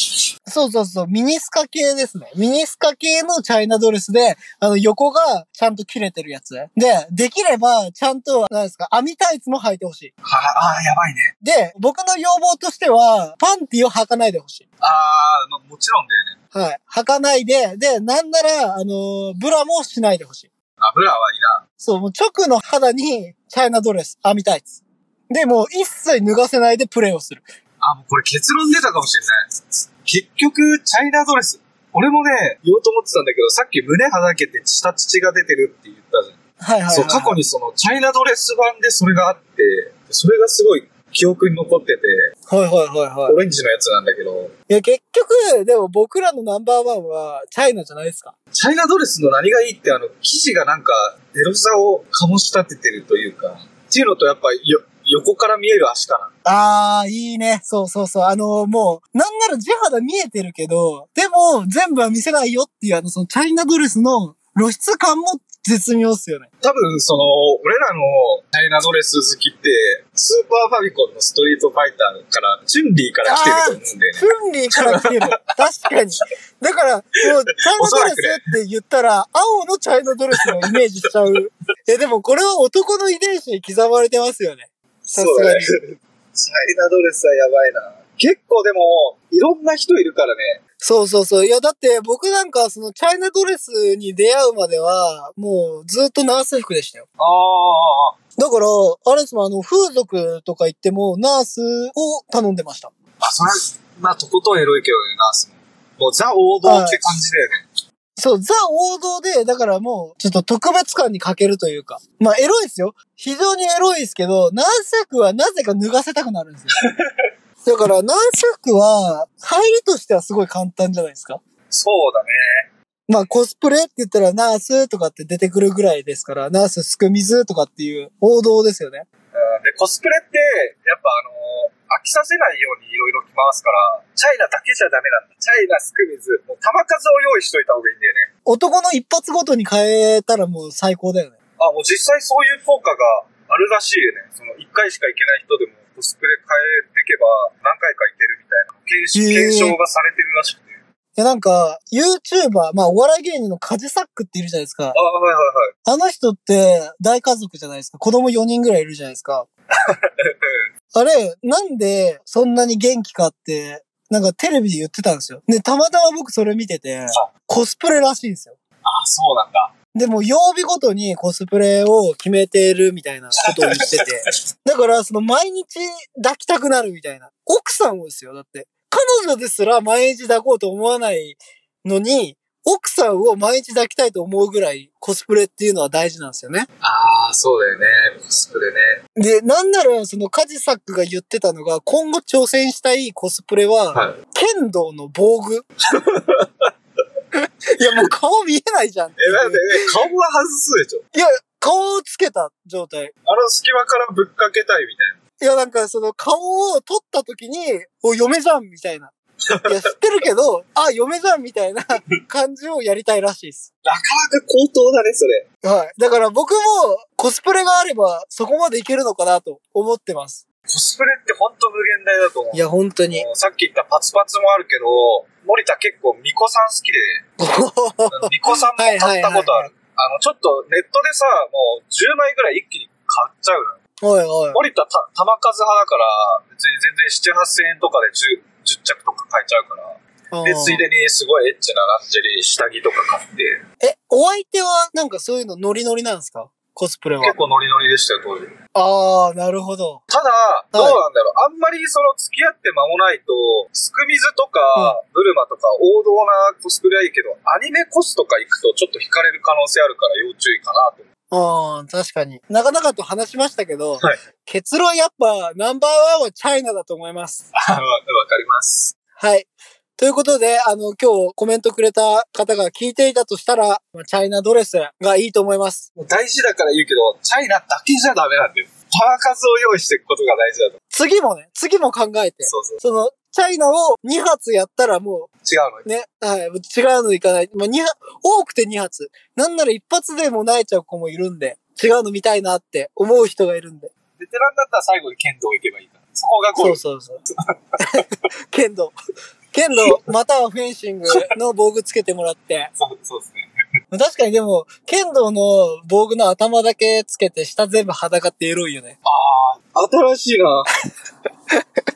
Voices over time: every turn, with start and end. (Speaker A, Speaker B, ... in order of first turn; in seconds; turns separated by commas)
Speaker A: 0.5-10.1, Speaker B: 10.2-11.3, Speaker A: 11.4-14.6, Speaker B: 14.8-16.4, Speaker A: 16.5-20.5, Speaker B: 20.8-21.6, Speaker A: 21.8-27.4, Speaker B: 27.8-29.3, Speaker B: 30.0-36.4, Speaker A: 36.6-37.4, Speaker B: 36.9-42.2, Speaker A: 42.5-43.4, Speaker B: 43.3-44.5, Speaker A: 44.7-48.3, Speaker B: 48.5-56.3, Speaker A: 56.4-66.5, Speaker B: 66.6-75.3, Speaker A: 73.2-85.7, Speaker B: 77.8-78.4, Speaker B: 85.1-90.6, Speaker A: 90.8-97.1, Speaker B: 97.2-98.1, Speaker A: 98.4-102.9, Speaker B: 103.2-107.6, Speaker A: 106.6-107.2, Speaker A: 108.2-116.8, Speaker A: 117.6-121.4, Speaker B: 121.7-122.7, Speaker A: 123.1-129.1, Speaker B: 129.3-138.3, Speaker A: 138.4-141.3, Speaker B: 141.6-150.7, Speaker A: 149.1-149.8, Speaker A: 151.2-154.9, Speaker B: 154.9-155.7, Speaker A: 155.8-159.5, Speaker B: 160.2-160.6, Speaker A: 160.9-168.6, Speaker B: 168.8-169.7, Speaker A: 169.9-186.7, Speaker B: 173.4-174.1, Speaker B: 186.8-189.0, Speaker A: 189.2-195.7, Speaker B: 195.9-196.5, Speaker A: 197.4-199.9, Speaker B: 199.2-201.0, Speaker A: 201.1-203.1, Speaker B: 203.2-205.2, Speaker A: 205.4-209.1, Speaker A: 209.7-213.7, Speaker B: 213.8-215.5, Speaker A: 215.6-220.4, Speaker B: 220.7-227.2, Speaker A: 222.5-223.2, Speaker A: 227.4-229.7, Speaker B: 228.1-233.8, Speaker A: 234.0-234.6, Speaker B: 234.5-243.6, Speaker A: 240.3-240.8, Speaker A: 243.8-247.4, Speaker B: 247.2-248.5, Speaker A: 248.7-250.0, Speaker B: 250.1-261.1, Speaker A: 250.7-251.0, Speaker A: 261.3-267.4, Speaker B: 267.5-268.9, Speaker A: 269.2-275.9, Speaker B: 275.9-280.8, Speaker A: 280.9-285.3, Speaker B: 282.4-282.8, Speaker B: 285.4-285.9, Speaker A: 285.8-293.9, Speaker B: 294.2-296.8, Speaker A: 296.6-297.2, Speaker A: 297.8-298.9, Speaker A: 299.5-302.7, Speaker B: 302.8-303.5, Speaker A: 303.9-309.0, Speaker B: 309.0-310.7